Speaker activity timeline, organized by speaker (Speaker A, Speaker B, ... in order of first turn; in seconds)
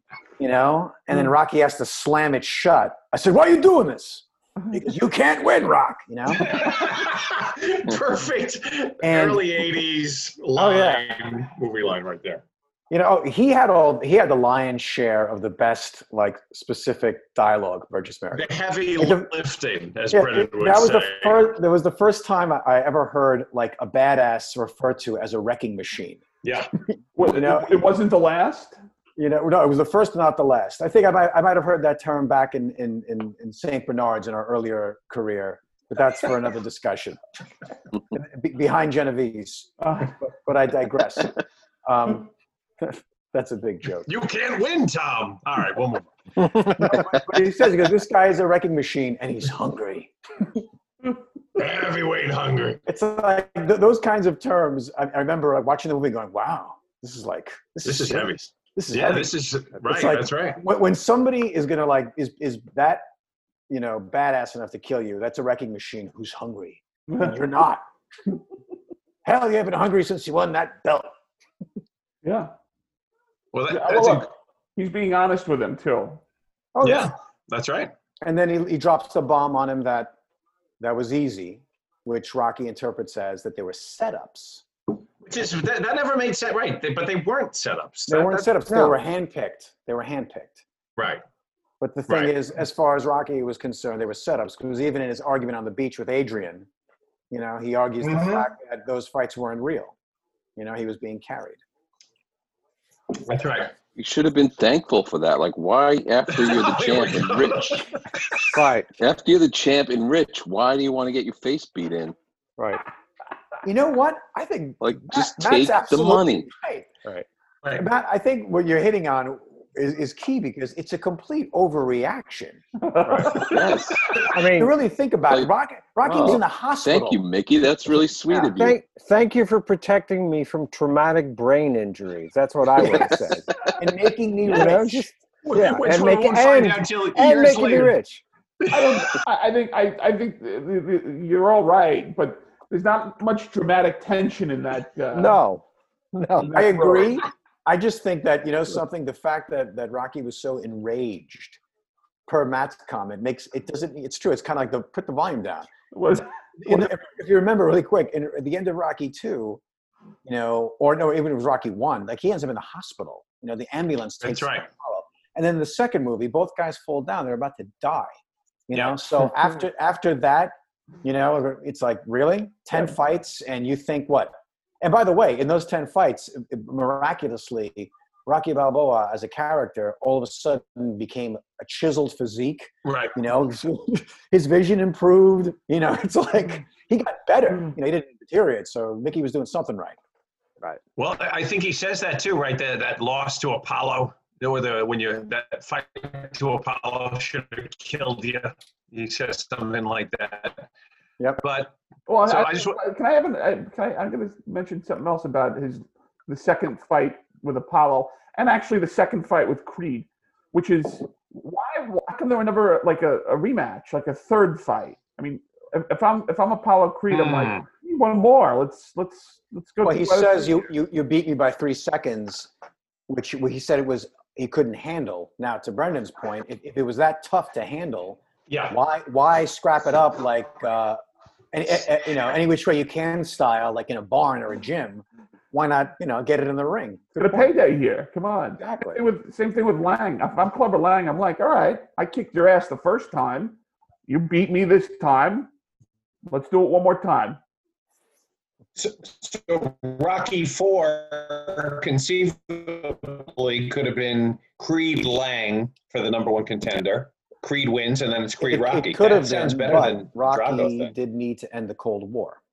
Speaker A: 0.4-6.5, 9.0-9.5, 10.6-11.0, 12.9-19.3, 20.1-26.2, 27.2-27.8, 29.2-37.2, 38.1-42.3, 42.8-44.1, 46.6-50.6, 52.9-63.0, 63.7-67.8, 69.2-71.1, 76.7-77.1, 78.2-80.1, 80.8-84.6, 88.1-90.6, 91.8-96.7, 97.3-99.9, 100.5-101.6, 113.6-116.9, 117.7-123.5, 124.3-127.2, 133.8-135.1, 146.5-151.6, 152.3-159.6, 160.2-168.1, 168.7-190.0, 219.8-222.5, 223.1-231.0, 231.5-237.5, 238.6-239.0, 258.4-262.4
Speaker B: 6.3-12.4, 18.3-21.5, 26.4-26.7, 44.0-46.1, 51.5-52.8, 57.8-60.6, 73.5-74.3, 76.8-77.9, 85.2-88.5, 91.0-91.2, 92.1-92.3, 98.0-98.5, 103.2-103.7, 106.3-108.5, 135.4-137.9, 138.6-139.2, 164.2-164.7, 168.7-169.0, 182.8-183.1, 191.0-200.7, 201.4-202.8, 217.1-217.7, 228.5-228.8, 248.8-260.9
Speaker C: 27.1-28.8, 39.8-40.1, 67.1-67.3, 72.2-72.5, 73.7-76.2, 122.8-123.8, 138.7-145.4, 146.4-147.2, 155.9-156.3, 202.1-220.6, 237.2-243.6, 244.1-245.5, 246.2-247.4
Speaker D: 88.7-89.0, 108.5-108.9, 124.3-124.7, 128.3-133.5, 134.5-138.2, 145.1-146.5
Speaker E: 103.9-107.9, 109.0-112.1, 114.8-116.5, 123.5-124.3, 126.1-128.8